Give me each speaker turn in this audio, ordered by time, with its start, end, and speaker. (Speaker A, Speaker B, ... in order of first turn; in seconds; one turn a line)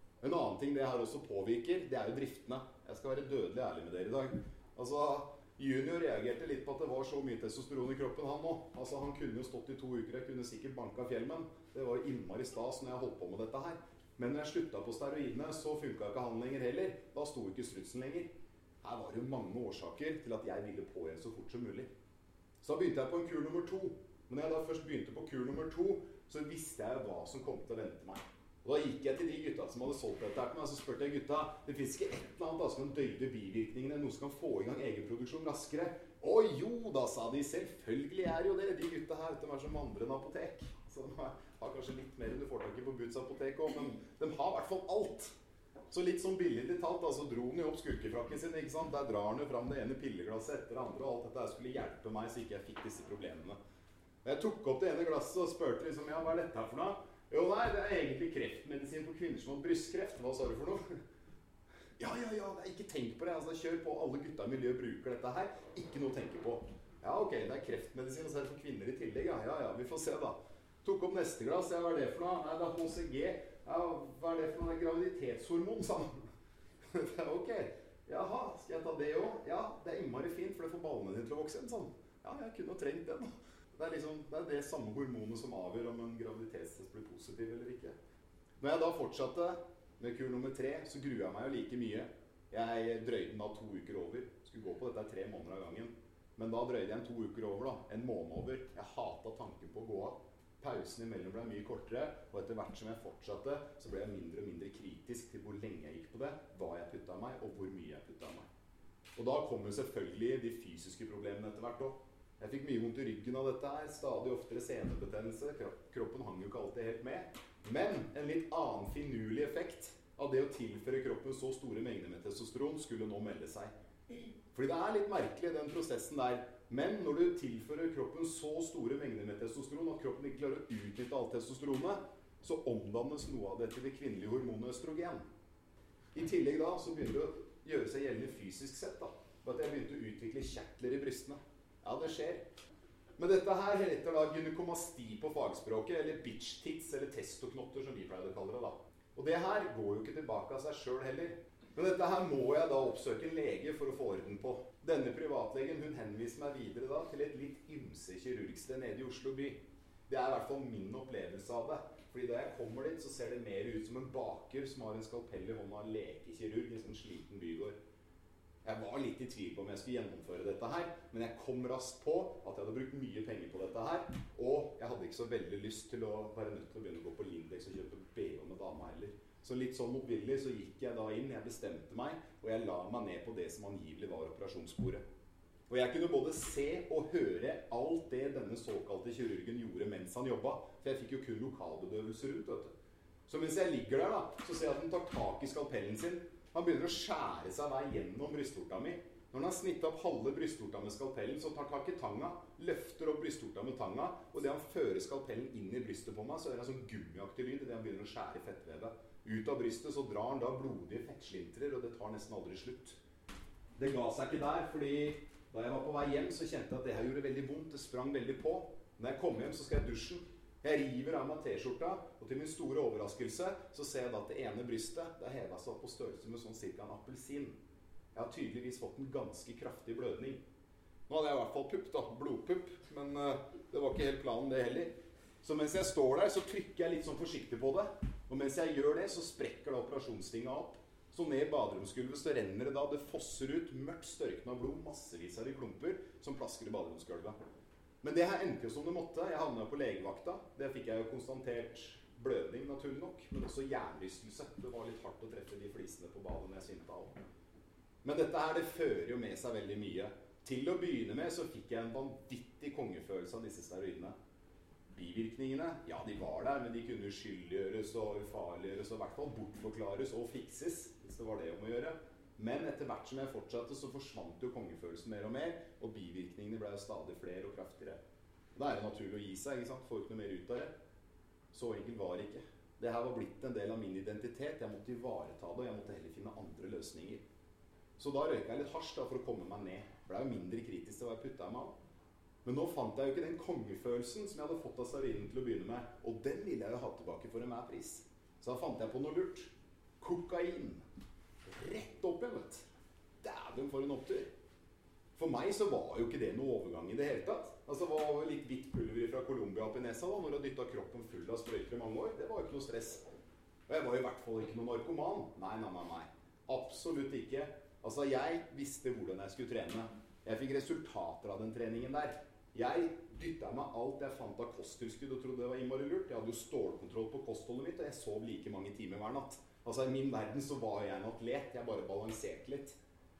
Speaker A: 0.2-18.3
Speaker A: 18.8-21.9
Speaker A: 22.6-45.3
Speaker A: 45.9-53.6
Speaker A: 54.2-60.8
Speaker A: 62.0-76.2
Speaker A: 76.9-87.9
Speaker A: 88.6-108.5
Speaker A: 109.2-123.7
Speaker A: 124.5-135.2
Speaker A: 136.1-142.4
Speaker A: 143.2-167.7
Speaker A: 168.6-185.0
Speaker A: 185.7-192.7
Speaker A: 193.3-213.0
Speaker A: 213.8-227.6
Speaker A: 228.1-230.4
Speaker A: 231.1-247.3
Speaker A: 248.0-257.1
Speaker A: 258.0-264.1
Speaker A: 264.9-278.0
Speaker A: 278.5-280.7
Speaker A: 281.5-287.2
Speaker A: 288.0-291.7
Speaker A: 292.4-300.8
Speaker A: 301.4-302.7
Speaker A: 303.2-304.3
Speaker A: 305.1-313.0
Speaker A: 313.7-332.8